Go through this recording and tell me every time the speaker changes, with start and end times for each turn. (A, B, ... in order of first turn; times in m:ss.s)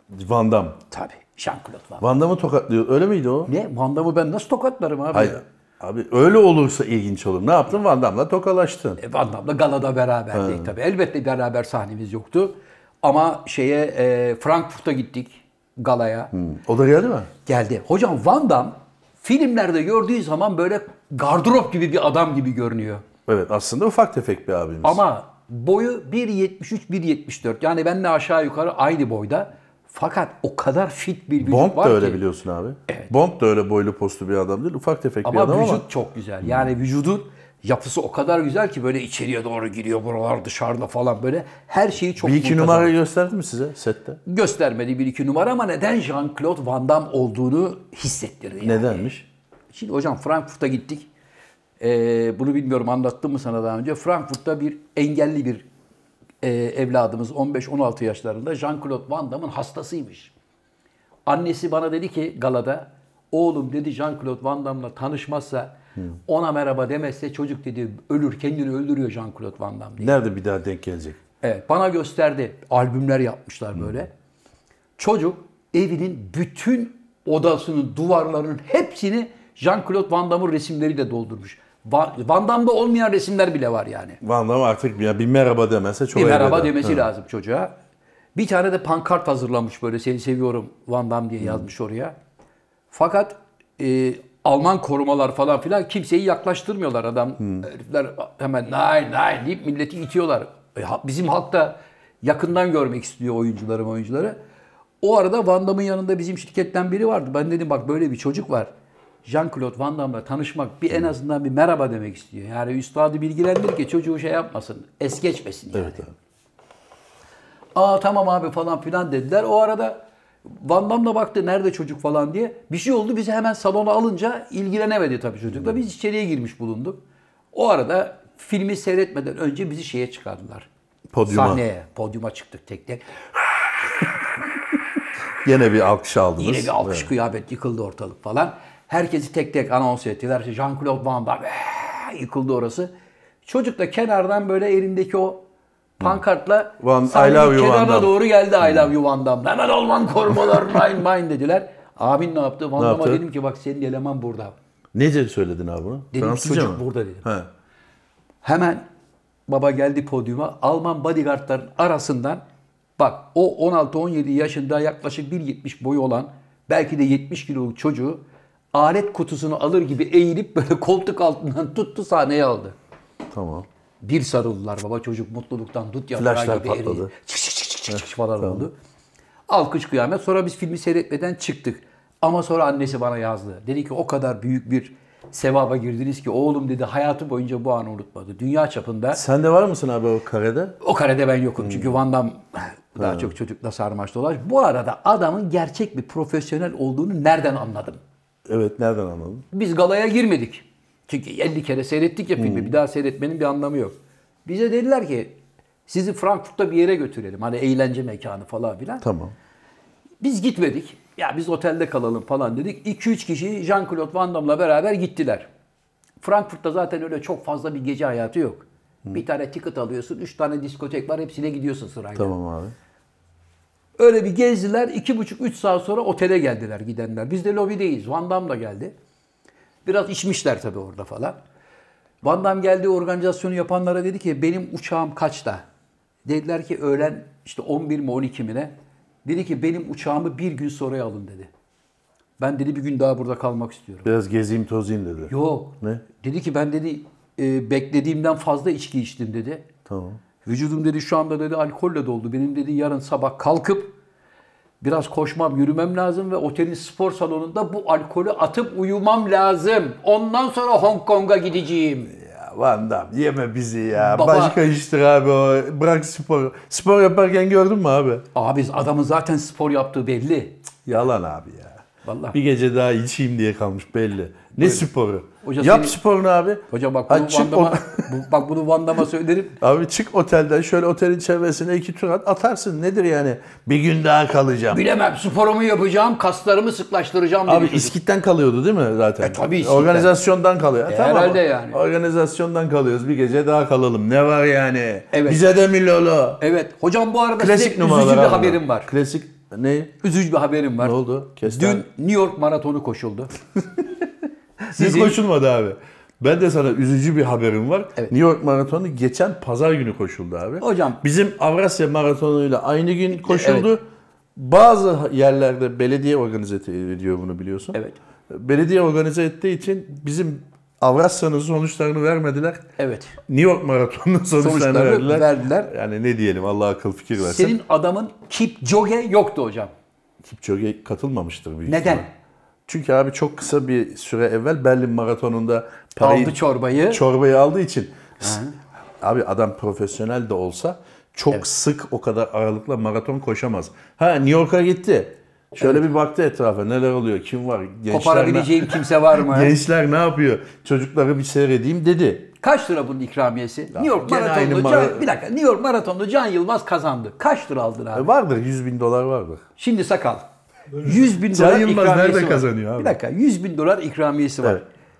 0:00.1-0:00.8 A
0:00.9-0:02.0 B
0:02.0-0:03.5 A
0:03.4-0:05.4 B
0:05.1-0:09.0 A
0:09.0-0:16.3 B
0:10.3-0:10.7 A
0:16.3-0:17.3 A
0:17.4-0:23.0 B
0:23.3-0:25.0 A
0:24.8-0:32.2 B
0:31.4-0:35.8 A
0:35.2-0:42.9 B
0:42.2-0:44.2 A
0:44.2-0:49.0 B
0:48.6-0:49.2 A
0:49.7-0:51.1 B
0:51.8-0:55.6 B
0:56.4-1:00.3 B
1:01.3-1:05.7 B
1:06.2-1:10.1 B
1:10.0-1:11.2 A
1:11.4-1:14.1 B
1:15.0-1:24.2 B
1:24.2-1:27.0 A
1:26.1-1:27.7 B
1:28.3-1:32.1 B
1:31.4-1:31.7 A
1:32.9-1:44.4 B
1:37.4-1:37.6 A
1:45.0-1:48.7 B
1:49.2-1:56.0 B
1:55.7-1:56.1 A
1:57.7-2:07.0 B
2:05.5-2:05.8 A
2:07.5-2:10.7 B
2:11.1-2:11.6 A
2:11.2-2:13.0 B
2:15.4-2:17.1 A
2:16.4-2:22.9 B
2:23.4-2:25.4 B
2:26.0-2:34.5 B
2:26.8-2:28.9 A
2:32.8-2:33.2 A
2:34.9-2:37.5 A
2:36.1-2:37.2 B
2:38.4-2:38.8 B
2:39.5-2:42.4 B
2:43.0-2:48.2 B
2:48.7-2:52.7 B
2:53.3-2:53.7 A
2:54.0-2:58.7 B
2:56.1-2:57.1 A
2:57.9-2:58.6 A
2:59.5-3:09.2 B
3:09.1-3:10.8 A
3:10.8-3:18.0 B
3:11.6-3:11.9 A
3:13.0-3:13.3 A
3:18.5-3:19.4 A
3:19.5-3:29.0 B
3:22.4-3:22.8 A
3:29.0-3:29.3 A
3:30.2-3:35.5 B
3:36.2-3:42.4 B
3:42.2-3:42.7 A
3:44.0-3:48.9 B
3:49.8-3:51.4 B
3:52.2-3:55.6 B
3:56.2-3:58.7 B
3:59.2-4:01.5 B
4:02.4-4:04.1 B
4:04.0-4:06.0 A
4:05.3-4:09.6 B
4:09.9-4:10.2 A
4:10.4-4:13.9 B
4:14.8-4:22.1 B
4:22.1-4:28.2 A
4:24.0-4:24.6 B
4:28.3-4:30.7 B
4:30.8-4:38.0 A
4:32.0-4:32.4 B
4:34.6-4:34.8 B
4:35.4-4:36.0 B
4:36.7-4:39.6 B
4:39.6-4:44.8 A
4:44.7-4:47.9 B
4:47.4-4:56.4 A
4:49.2-4:50.1 B
4:50.8-4:51.8 B
4:55.1-4:55.4 B
4:56.4-4:58.9 B
4:57.4-4:59.9 A
5:00.0-5:03.3 B
5:00.8-5:01.8 A
5:04.6-5:13.8 A
5:04.7-5:05.2 B
5:10.6-5:11.0 B
5:13.3-5:13.7 B
5:14.4-5:17.8 A
5:18.3-5:22.6 A
5:22.8-5:23.2 B
5:23.3-5:27.6 A
5:24.4-5:25.7 B
5:27.2-5:29.7 B
5:30.2-5:32.0 A
5:31.6-5:32.1 B
5:32.7-5:38.4 A
5:36.0-5:37.0 B
5:38.2-5:38.6 B
5:39.0-5:52.3 A
5:45.6-5:45.9 B
5:47.9-5:49.5 B
5:52.4-5:58.1 B
5:53.7-5:55.0 A
5:57.9-5:59.4 A
5:59.6-6:00.3 B
6:00.8-6:04.6 B
6:01.0-6:03.0 A